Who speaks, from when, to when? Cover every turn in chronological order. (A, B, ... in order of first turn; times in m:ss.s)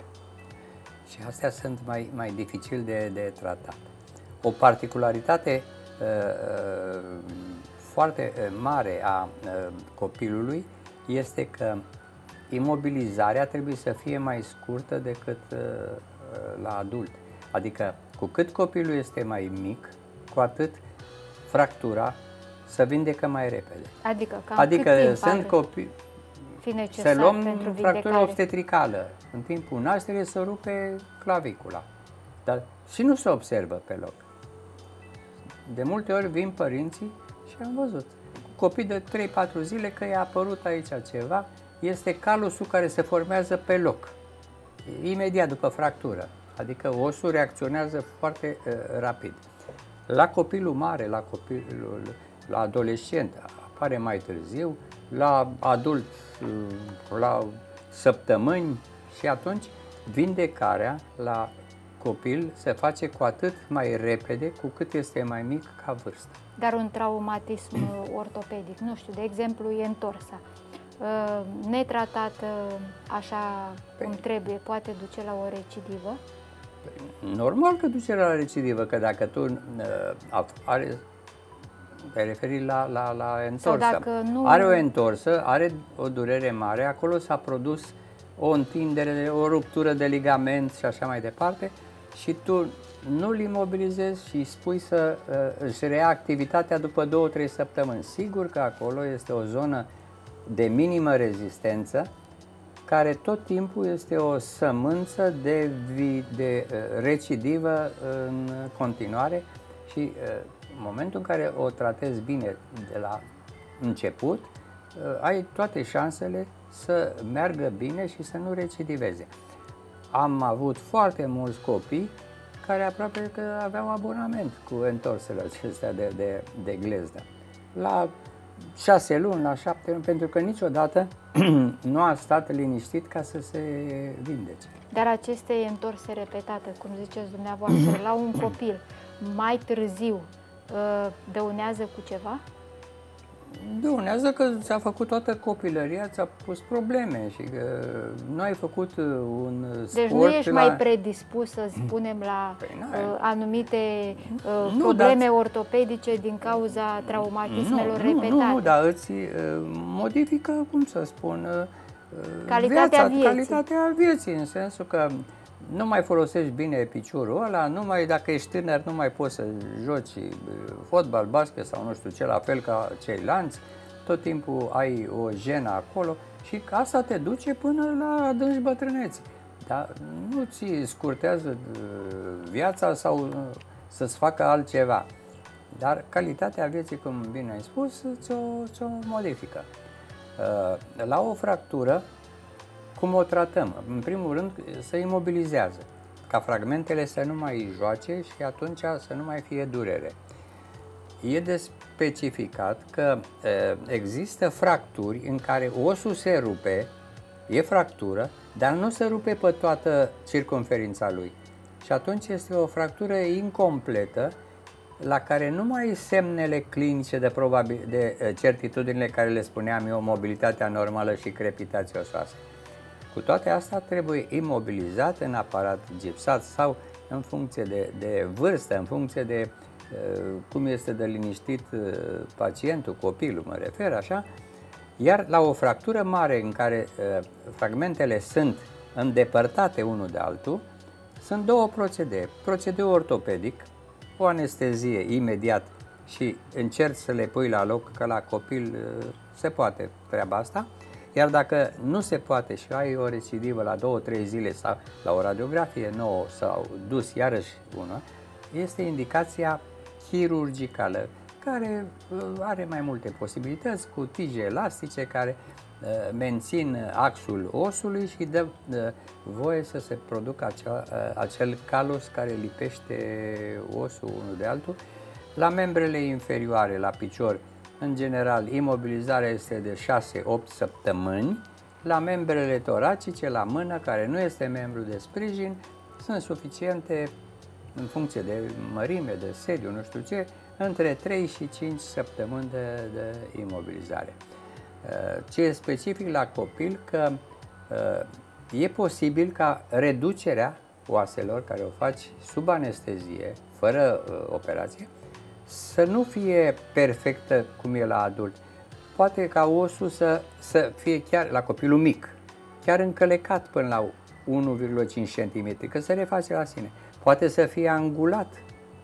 0:01.0-0:03.8 A
0:04.4-0:11.8 A
0:12.5-0:20.8 A
0:21.5-0:22.1 A
0:22.6-0:23.9 A
0:24.0-0:25.5 B
0:24.6-0:25.9 A
0:26.6-0:28.4 B
0:27.0-0:31.8 A
0:32.4-0:34.2 A
0:35.6-0:44.1 A
0:44.8-0:49.4 A
0:50.1-1:06.4 A
1:06.6-1:10.4 B
1:11.0-1:16.2 B
1:17.0-1:21.0 A
1:22.1-1:39.9 A
1:23.6-1:24.8 B
1:40.4-1:42.1 A
1:42.8-1:53.2 A
1:53.8-1:59.3 A
2:00.1-2:08.1 A
2:08.7-2:14.7 A
2:14.9-2:22.4 B
2:23.5-2:30.8 A
2:29.9-2:38.7 B
2:32.6-2:33.1 A
2:34.6-2:35.2 A
2:37.4-3:05.1 A
2:42.5-2:43.6 B
3:05.7-3:09.7 A
3:10.4-3:12.0 A
3:13.0-3:20.2 A
3:21.2-3:26.9 A
3:27.5-3:34.4 A
3:35.0-3:42.4 A
3:43.1-3:54.2 A
3:55.0-4:00.6 A
4:01.2-4:34.8 A
4:35.4-4:47.1 A
4:47.7-4:54.2 A
4:54.8-5:04.9 A
5:05.4-5:08.4 A
5:08.9-5:18.4 A